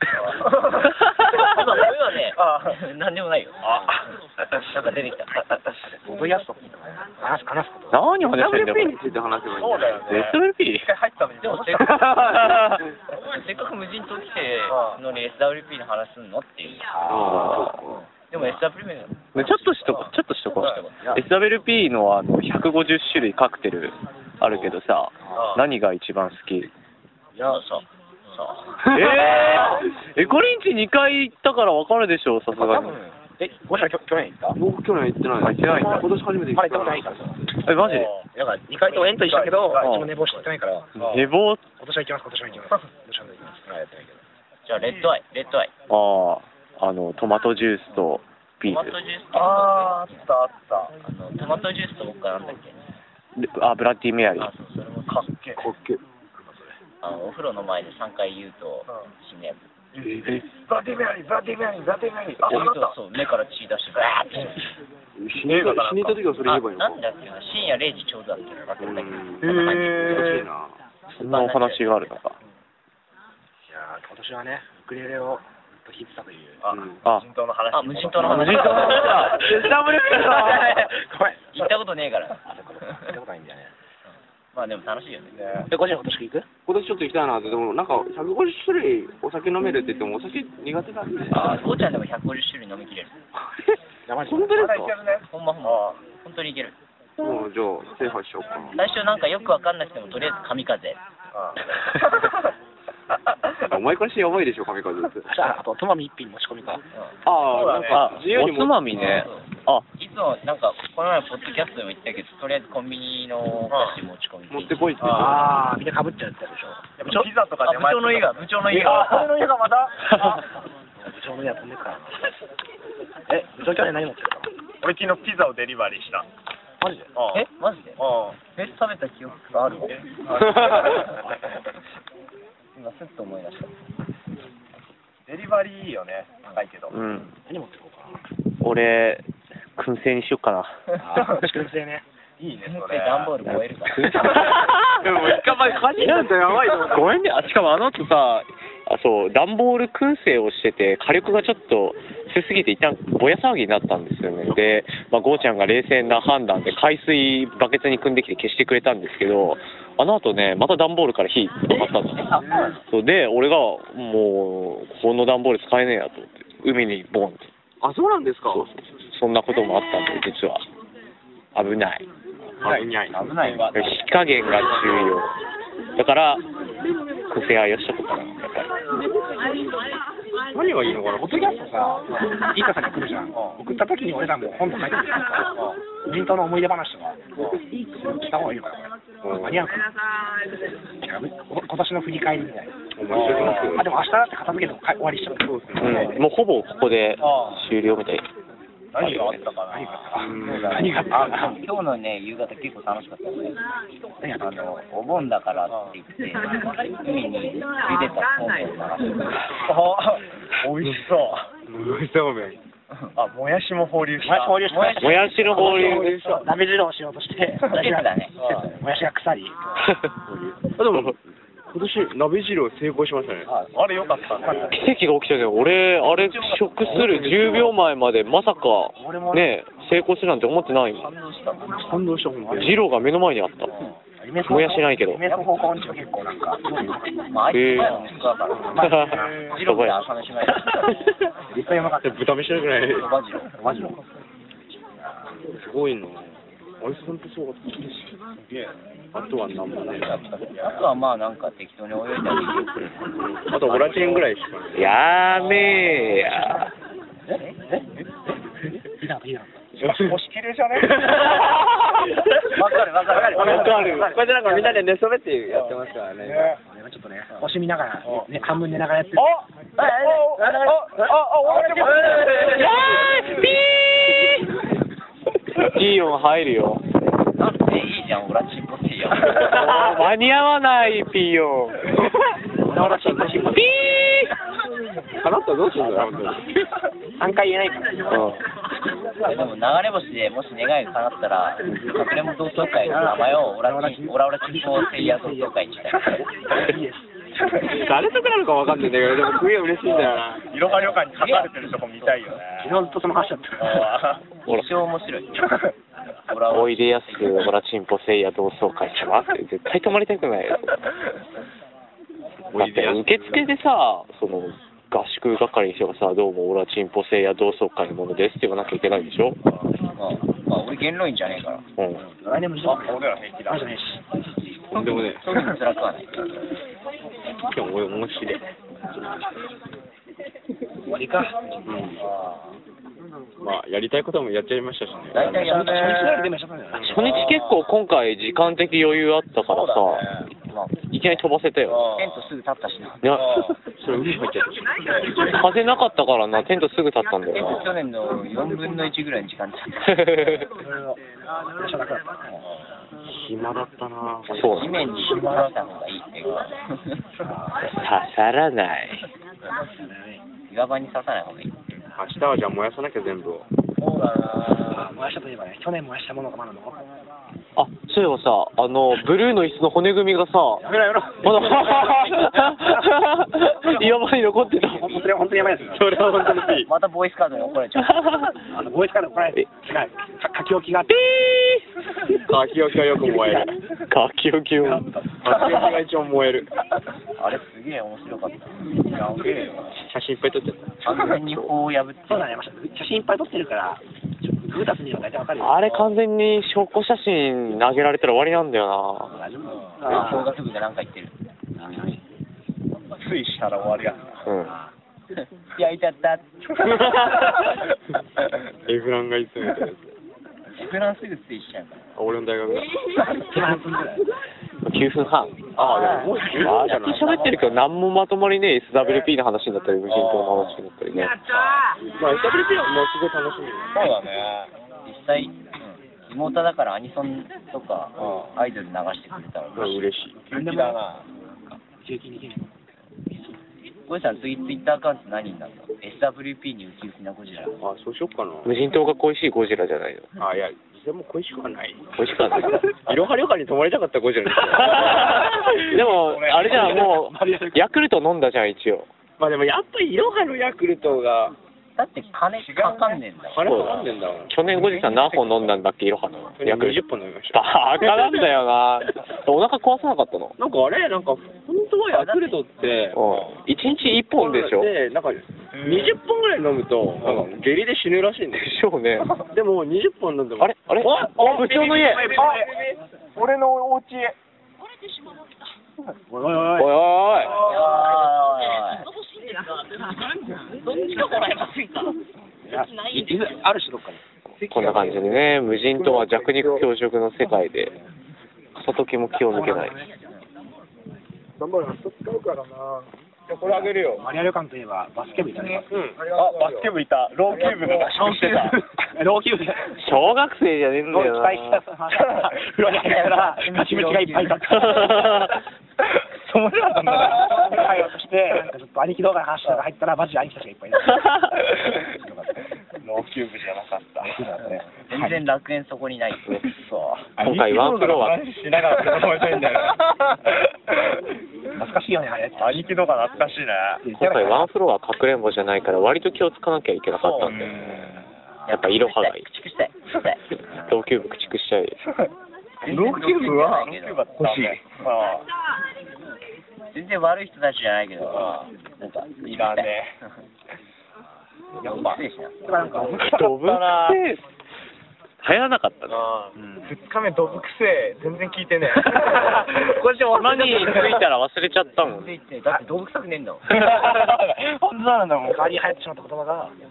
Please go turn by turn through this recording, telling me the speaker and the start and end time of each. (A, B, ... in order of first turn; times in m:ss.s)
0:00.1-0:01.0 A
0:00.9-0:04.0 B
0:02.3-0:02.8 A
0:03.6-0:04.0 A
0:04.6-0:05.6 B
0:05.9-0:08.0 C
0:07.9-0:09.0 D
0:08.2-0:10.2 E
0:09.6-0:12.2 A
0:10.1-0:10.9 D
0:11.4-0:21.2 B
0:11.8-0:12.8 D
0:14.7-0:15.0 A
0:16.9-0:17.8 C
0:17.1-0:17.8 E
0:17.2-0:17.8 D
0:19.4-0:26.7 D
0:20.6-0:20.8 A
0:24.4-0:24.8 E
0:25.4-0:25.7 A
0:27.4-0:29.0 B
0:28.9-0:33.0 D
0:29.0-0:29.6 E
0:32.6-0:34.6 C
0:34.6-0:37.2 E
0:35.4-0:36.1 D
0:36.5-0:37.4 C
0:37.6-0:38.1 D
0:37.8-0:38.3 A
0:38.2-0:41.1 C
0:38.9-0:39.9 A
0:39.8-0:40.1 D
0:41.0-0:41.6 D
0:41.0-0:41.3 A
0:41.8-0:44.2 C
0:44.6-0:45.7 B
0:45.9-0:49.0 D
0:48.7-0:50.3 B
0:49.3-0:51.0 A
0:51.0-0:52.8 B
0:53.4-0:54.5 D
0:54.4-0:55.3 B
0:55.1-0:55.7 A
0:55.7-0:56.0 E
0:57.0-0:59.7 B
1:00.0-1:03.0 A
1:02.4-1:04.6 B
1:04.0-1:04.6 A
1:05.2-1:07.0 E
1:05.4-1:06.6 A
1:06.5-1:10.3 B
1:08.8-1:10.8 E
1:09.4-1:10.5 A
1:11.2-1:12.3 D
1:11.2-1:12.2 B
1:13.7-1:16.7 C
1:16.6-1:19.7 A
1:16.7-1:17.0 E
1:17.7-1:20.9 B
1:18.2-1:19.4 D
1:18.3-1:20.7 E
1:19.9-1:21.8 C
1:21.5-1:22.4 B
1:22.5-1:23.7 C
1:24.5-1:25.3 B
1:25.4-1:25.7 A
1:25.7-1:26.5 C
1:26.6-1:31.6 E
1:31.3-1:33.2 B
1:34.1-1:34.7 C
1:34.3-1:34.9 E
1:34.5-1:35.8 A
1:35.3-1:36.8 B
1:37.2-1:38.8 E
1:38.8-1:41.0 B
1:41.4-1:42.3 A
1:43.6-1:45.3 E
1:45.3-1:46.8 C
1:47.2-1:48.9 E
1:47.4-1:48.1 A
1:47.9-1:49.8 D
1:48.9-1:55.2 B
1:53.7-1:54.0 A
1:54.5-1:55.5 E
1:55.0-1:55.6 A
1:55.1-1:57.0 C
1:57.0-2:00.4 A
1:57.1-1:59.3 B
2:01.0-2:02.3 C
2:03.3-2:04.5 C
2:04.8-2:06.3 A
2:06.8-2:07.1 C
2:07.2-2:07.5 A
2:07.3-2:11.1 B
2:08.0-2:08.4 A
2:10.0-2:11.2 A
2:12.8-2:13.7 B
2:15.3-2:17.0 A
2:16.9-2:17.3 D
2:17.5-2:18.2 C
2:18.6-2:19.2 D
2:19.8-2:20.8 D
2:21.0-2:22.0 C
2:22.4-2:23.3 A
2:22.6-2:24.4 B
2:23.4-2:47.5 D
2:24.9-2:27.1 E
2:47.8-2:48.8 E
2:48.5-2:50.6 D
2:51.6-2:52.0 D
2:52.6-2:53.8 E
2:53.1-2:53.8 B
2:53.3-2:54.0 A
2:53.7-2:55.3 D
2:56.0-2:56.4 D
2:57.3-2:58.7 D
3:00.5-3:01.5 E
3:01.2-3:07.2 C
3:05.6-3:05.8 A
3:07.4-3:07.6 A
3:07.8-3:09.9 C
3:09.2-3:09.6 E
3:10.9-3:12.8 C
3:12.9-3:13.8 E
3:13.1-3:13.8 A
3:13.4-3:16.0 C
3:15.4-3:16.1 E
3:15.8-3:18.3 D
3:17.2-3:17.7 A
3:18.9-3:21.0 A
3:19.0-3:19.4 D
3:19.7-3:21.7 C
3:20.2-3:21.0 E
3:20.9-3:23.6 B
3:24.2-3:24.8 C
3:24.5-3:29.4 B
3:29.5-3:31.5 A
3:31.7-3:32.6 E
3:33.2-3:34.7 A
3:34.2-3:39.6 C
3:34.7-3:36.0 B
3:35.0-3:36.1 D
3:35.6-3:36.3 A
3:35.7-3:36.4 E
3:37.7-3:38.4 B
3:38.4-3:38.7 A
3:40.4-3:41.2 E
3:41.7-3:43.5 E
3:43.6-3:44.8 A
3:44.7-3:51.1 D
3:46.9-3:47.8 E
3:49.0-3:49.4 C
3:51.0-3:51.8 B
3:51.7-3:52.8 E
3:52.5-3:53.8 D
3:54.2-3:57.2 C
3:54.4-3:55.2 D
3:57.3-4:01.1 B
3:57.5-3:58.0 D
3:58.7-3:59.5 C
3:58.8-4:00.0 D
3:59.1-3:59.6 A
4:01.5-4:02.2 C
4:02.0-4:03.1 E
4:02.8-4:03.6 B
4:03.6-4:04.0 C
4:05.5-4:08.1 E
4:08.4-4:08.7 A
4:09.1-4:10.2 E
4:10.2-4:10.8 A
4:10.5-4:12.8 B
4:13.2-4:15.0 E
4:13.6-4:14.3 A
4:14.7-4:16.7 D
4:16.4-4:16.7 C
4:17.3-4:18.0 C
4:18.7-4:19.6 C
4:19.8-4:21.2 A
4:21.0-4:22.0 E
4:22.5-4:23.8 B
4:22.7-4:24.1 A
4:23.1-4:24.7 C
4:23.4-4:26.5 E
4:23.4-4:24.0 D
4:26.2-4:26.6 A
4:26.6-4:29.3 C
4:28.0-4:28.3 A
4:29.2-4:29.5 A
4:29.8-4:31.0 B
4:30.0-4:32.3 A
4:31.5-4:32.7 B
4:32.3-4:34.5 D
4:35.6-4:36.8 D
4:37.4-4:39.9 B
4:39.6-4:41.9 D
4:42.7-4:43.7 C
4:42.7-4:43.8 E
4:43.5-4:44.3 D
4:45.2-4:46.5 E
4:45.8-4:46.1 C
4:47.2-4:48.4 C
4:48.1-4:48.4 D
4:49.2-4:49.5 C
4:49.2-4:56.2 B
4:52.8-4:57.1 C
4:57.6-5:00.4 E
5:00.4-5:02.7 A
5:00.7-5:01.5 B
5:02.6-5:03.9 C
5:03.6-5:04.3 A
5:04.5-5:05.4 B
5:06.3-5:07.5 B
5:06.5-5:10.8 D
5:12.5-5:19.4 D
5:12.5-5:13.5 E
5:19.9-5:21.6 B
5:21.8-5:22.0 D
5:22.0-5:23.0 C
5:22.6-5:23.7 A
5:23.5-5:24.0 C
5:24.7-5:25.2 E
5:24.8-5:26.2 B
5:27.4-5:28.5 E
5:30.8-5:32.0 C
5:31.7-5:32.0 E
5:32.0-5:32.6 A
5:33.4-5:35.7 E
5:35.1-5:36.0 B
5:35.2-5:36.3 A
5:35.3-5:37.2 C
5:36.8-5:37.0 E
5:36.9-5:40.1 D
5:37.0-5:37.6 A
5:39.5-5:40.3 A
5:40.5-5:40.8 B
5:40.9-5:41.9 D
5:41.7-5:42.3 A
5:41.9-5:43.1 B
5:43.0-5:43.3 D
5:43.1-5:43.6 A
5:43.7-5:44.8 E
5:45.2-5:47.7 D
5:47.3-5:50.4 B
5:49.9-5:50.4 D
5:50.6-5:52.4 C
5:53.1-5:54.9 E
5:54.3-5:54.8 D
5:54.3-5:57.0 B
5:55.0-5:55.5 A
5:57.7-5:59.0 D
5:59.5-6:00.2 C
6:00.5-6:01.5 B
6:02.0-6:03.4 E
6:03.8-6:04.9 A
6:04.5-6:06.8 C
6:07.6-6:10.6 D
6:10.6-6:11.8 C
6:11.2-6:15.1 D
6:14.6-6:15.9 C
6:15.6-6:16.7 E
6:16.6-6:18.1 B
6:18.0-6:18.3 D
6:18.5-6:21.2 C
6:20.9-6:21.6 D
6:22.1-6:23.5 E
6:23.0-6:25.1 D
6:25.2-6:26.5 E
6:27.2-6:28.7 B
6:28.8-6:29.7 A
6:29.8-6:30.8 E
6:30.8-6:32.3 B
6:31.0-6:31.5 D
6:32.1-6:35.7 C
6:35.4-6:39.2 D
6:35.7-6:35.9 A
6:39.2-6:40.3 C
6:39.8-6:41.1 B
6:41.6-6:42.0 C
6:42.9-6:44.3 A
6:44.3-6:44.6 D
6:45.2-6:46.9 B
6:46.8-6:47.2 A
6:48.6-6:49.9 E
6:50.6-6:52.0 B
6:52.0-6:53.2 E
6:53.2-6:54.2 C
6:54.6-7:01.3 D
6:55.5-6:57.3 E
6:55.6-6:57.6 B
6:59.9-7:00.5 A
7:00.3-7:00.6 B
7:02.0-7:03.8 E
7:03.7-7:04.5 A
7:04.9-7:10.0 B
7:09.6-7:10.2 E
7:10.3-7:11.0 A
7:10.3-7:11.0 C
7:11.8-7:12.5 C
7:13.9-7:17.6 B
7:17.6-7:18.6 E
7:18.4-7:20.1 D
7:20.2-7:25.5 E
7:22.0-7:22.7 D
7:24.6-7:28.9 D
7:24.8-7:27.5 A
7:26.4-7:26.9 E
7:29.2-7:31.4 E
7:31.8-7:33.5 B
7:32.4-7:33.0 A
7:33.3-7:34.3 E
7:33.5-7:40.4 D
7:36.4-7:38.3 E
7:40.4-7:43.0 E
7:41.9-7:42.4 B
7:42.9-7:44.7 D
7:43.1-7:43.3 A
7:44.2-7:48.6 E
7:45.6-7:46.0 A
7:48.3-7:49.2 D
7:49.2-7:52.0 E
7:50.4-7:52.2 D
7:51.3-7:52.6 A
7:51.7-7:52.4 C
7:53.2-7:54.2 A
7:56.1-7:56.8 C
7:56.6-7:57.4 D
7:57.3-7:58.0 A
7:57.3-7:58.9 B
8:00.4-8:01.2 C
8:00.7-8:01.9 B
8:02.4-8:05.1 C
8:04.4-8:07.8 D
8:05.8-8:06.2 A
8:08.6-8:09.8 D
8:09.2-8:10.0 C
8:11.4-8:14.0 A
8:13.4-8:15.7 C
8:15.7-8:16.7 E
8:16.0-8:18.6 A
8:17.3-8:19.8 C
8:19.8-8:21.6 D
8:20.9-8:25.2 C
8:22.8-8:24.9 B
8:24.7-8:25.3 D
8:26.3-8:28.5 A
8:26.6-8:32.4 C
8:32.8-8:34.2 A
8:34.0-8:35.2 C
8:34.7-8:36.4 B
8:36.4-8:39.1 A
8:37.2-8:38.2 D
8:37.4-8:40.0 E
8:41.5-8:42.7 C
8:42.4-8:43.9 A
8:43.8-8:44.5 C
8:43.9-8:49.2 D
8:46.9-8:47.7 A
8:48.5-8:50.2 B
8:50.6-8:51.8 D
8:52.6-8:54.1 B
8:52.7-8:53.6 E
8:52.7-8:55.3 A
8:54.2-8:54.6 E
8:56.7-8:59.8 B
8:58.1-8:58.4 A
8:59.3-9:00.0 A
9:01.6-9:02.6 B
9:01.6-9:03.3 C
9:02.8-9:04.0 A
9:03.0-9:04.2 D
9:05.2-9:06.1 D
9:05.9-9:11.0 A
9:09.8-9:12.1 D
9:11.9-9:13.5 B
9:13.5-9:15.0 A
9:13.6-9:13.9 D
9:15.2-9:16.6 C